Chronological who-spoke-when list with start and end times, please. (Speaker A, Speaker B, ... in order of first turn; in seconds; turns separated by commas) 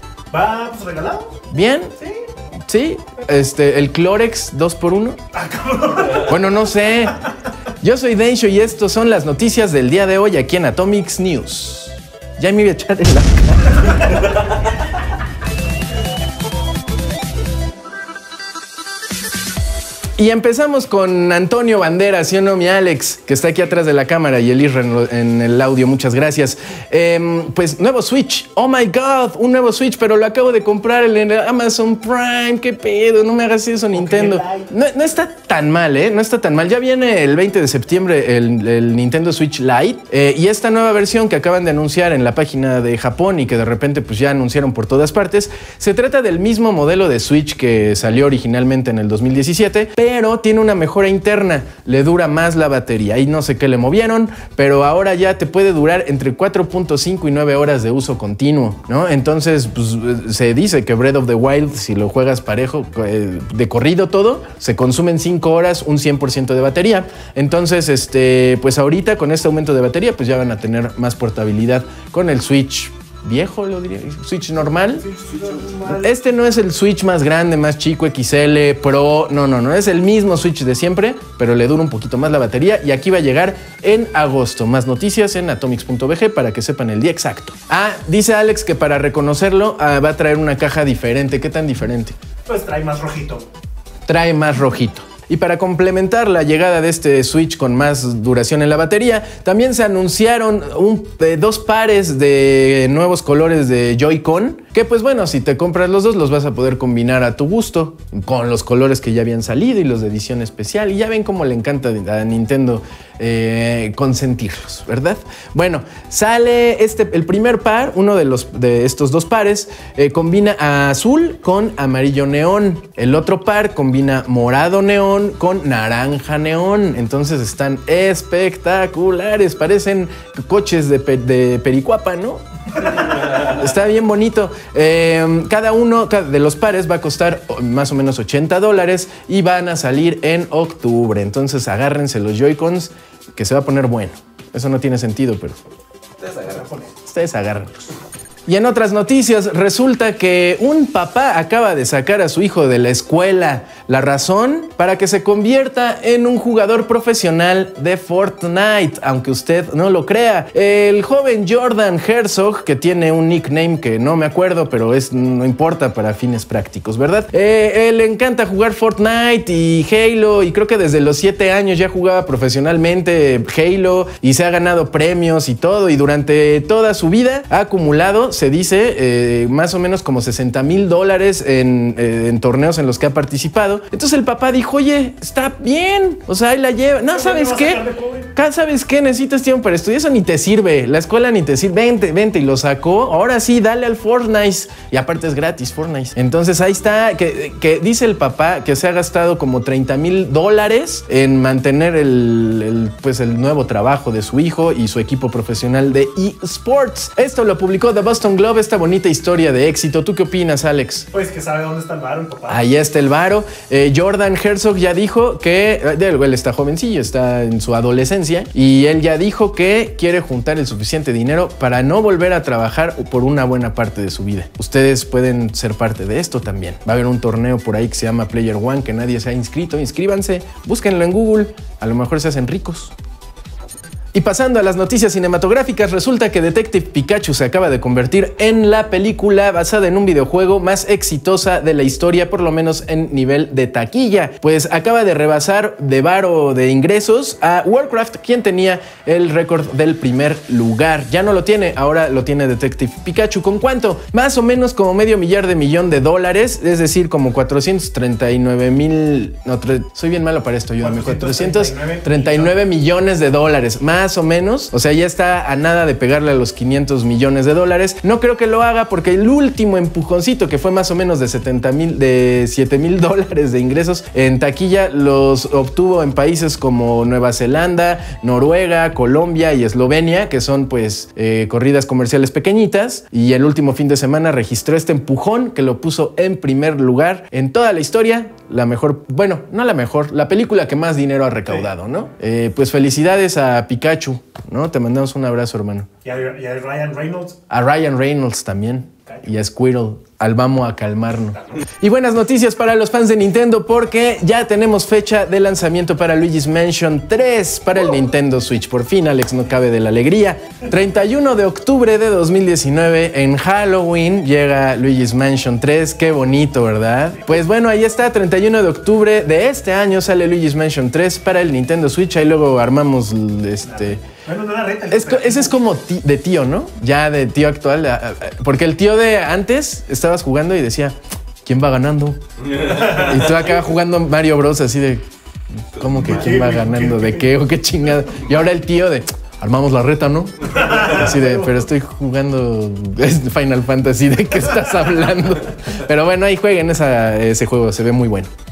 Speaker A: 0.3-1.4, Speaker B: 1.5-1.9, Speaker A: 2.0-2.2, Speaker B: 2.7-5.2, Speaker A: 5.3-6.3, Speaker B: 6.1-7.2, Speaker B: 7.8-14.2, Speaker B: 20.2-75.1, Speaker A: 33.9-34.7, Speaker A: 75.1-76.0, Speaker B: 75.8-92.2, Speaker A: 92.5-93.5, Speaker B: 94.1-145.6, Speaker A: 146.2-146.9, Speaker B: 147.0-147.8, Speaker B: 148.5-187.8, Speaker A: 187.1-188.3, Speaker B: 188.3-211.1, Speaker A: 211.1-212.6, Speaker B: 212.5-232.9, Speaker B: 234.1-295.9, Speaker A: 260.8-262.6, Speaker A: 296.0-297.4, Speaker B: 297.5-324.0, Speaker A: 323.7-325.5, Speaker B: 324.9-335.0, Speaker B: 335.6-348.3, Speaker A: 336.0-337.3, Speaker A: 340.6-340.9